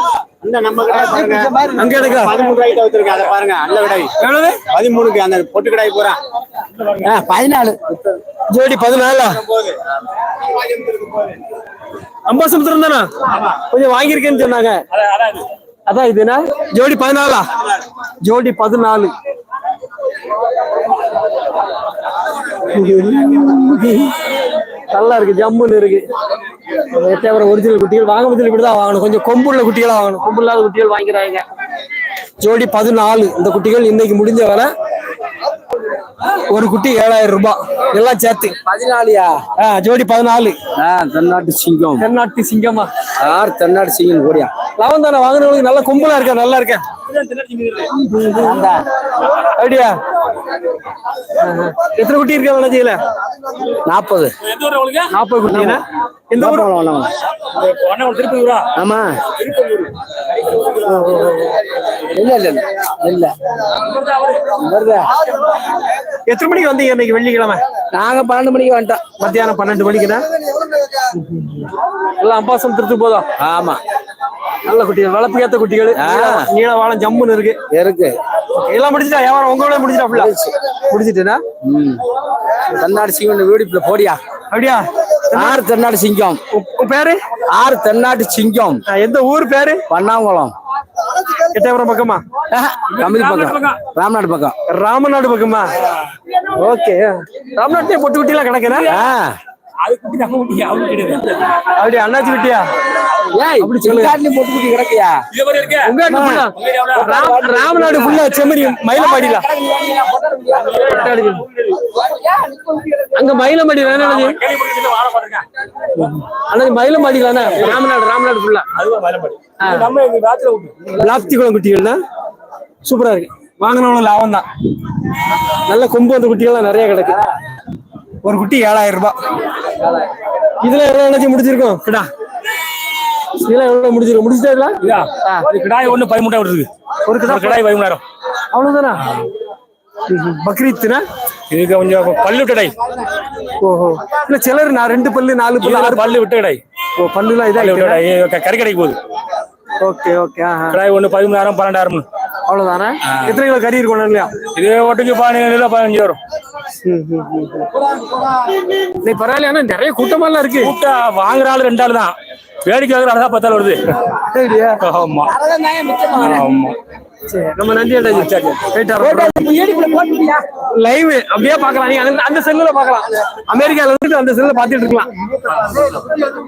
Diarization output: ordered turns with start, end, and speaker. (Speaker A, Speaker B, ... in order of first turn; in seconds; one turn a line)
Speaker A: 0.4-4.1
Speaker B: 1.1-2.4
Speaker B: 4.2-4.6
Speaker A: 4.7-6.2
Speaker C: 7.0-7.8
Speaker B: 8.5-9.4
Speaker B: 12.3-13.1
Speaker B: 13.7-14.8
Speaker D: 15.0-15.4
Speaker B: 15.9-17.5
Speaker B: 18.2-19.1
Speaker B: 22.7-24.1
Speaker B: 24.9-26.0
Speaker B: 26.9-31.4
Speaker B: 32.4-34.7
Speaker B: 36.5-38.5
Speaker C: 38.6-39.4
Speaker B: 39.6-40.5
Speaker C: 40.8-42.0
Speaker B: 42.0-42.9
Speaker C: 43.2-44.5
Speaker B: 44.8-46.8
Speaker D: 47.1-47.9
Speaker C: 48.0-48.8
Speaker B: 49.6-50.0
Speaker B: 51.4-53.0
Speaker C: 53.9-54.3
Speaker D: 54.4-55.1
Speaker B: 55.1-56.7
Speaker C: 55.5-55.8
Speaker C: 56.4-57.1
Speaker D: 57.5-58.7
Speaker C: 58.8-59.1
Speaker D: 59.4-59.9
Speaker B: 60.9-61.5
Speaker C: 62.1-63.3
Speaker C: 64.5-65.1
Speaker B: 66.3-67.6
Speaker C: 67.9-69.0
Speaker B: 69.2-70.2
Speaker B: 71.2-71.7
Speaker B: 72.2-73.2
Speaker C: 73.5-73.7
Speaker B: 74.7-77.6
Speaker C: 76.0-76.4
Speaker C: 77.7-78.2
Speaker B: 78.5-80.3
Speaker C: 80.1-80.5
Speaker B: 80.9-81.4
Speaker C: 81.6-82.0
Speaker C: 82.7-84.2
Speaker B: 84.5-85.6
Speaker C: 85.3-86.4
Speaker B: 86.5-87.2
Speaker C: 87.5-88.8
Speaker B: 88.9-89.8
Speaker C: 89.9-90.5
Speaker B: 91.5-92.2
Speaker C: 92.5-94.5
Speaker D: 92.8-93.8
Speaker B: 94.7-95.7
Speaker B: 96.6-98.9
Speaker C: 98.9-99.3
Speaker D: 99.8-101.5
Speaker B: 101.8-102.7
Speaker C: 103.3-105.2
Speaker B: 103.6-104.2
Speaker D: 105.3-106.0
Speaker B: 105.8-109.5
Speaker C: 106.1-106.4
Speaker D: 106.5-107.4
Speaker C: 106.9-108.2
Speaker C: 109.0-110.7
Speaker D: 110.6-111.0
Speaker B: 110.7-111.4
Speaker B: 113.1-114.4
Speaker D: 113.8-115.5
Speaker B: 116.0-118.7
Speaker D: 117.5-117.8
Speaker D: 118.8-120.9
Speaker B: 119.6-119.9
Speaker B: 121.0-122.0
Speaker B: 122.8-124.5
Speaker B: 125.7-127.2
Speaker B: 128.2-129.2
Speaker B: 130.6-132.1
Speaker B: 133.4-135.4
Speaker D: 134.8-136.7
Speaker B: 137.1-137.6
Speaker D: 137.2-138.0
Speaker B: 138.5-139.1
Speaker B: 140.1-141.0
Speaker D: 141.5-142.7
Speaker B: 143.6-146.1
Speaker D: 145.6-146.6
Speaker B: 147.0-148.0
Speaker D: 147.6-149.0
Speaker B: 149.8-150.8
Speaker D: 150.7-152.0
Speaker B: 152.5-154.3
Speaker D: 153.1-153.4
Speaker D: 154.5-156.2
Speaker B: 156.8-157.7
Speaker B: 159.0-160.7
Speaker D: 160.6-163.8
Speaker B: 164.3-164.8
Speaker D: 164.8-165.3
Speaker D: 166.2-166.8
Speaker B: 167.3-169.4
Speaker D: 168.1-168.6
Speaker C: 169.2-170.3
Speaker B: 170.7-175.1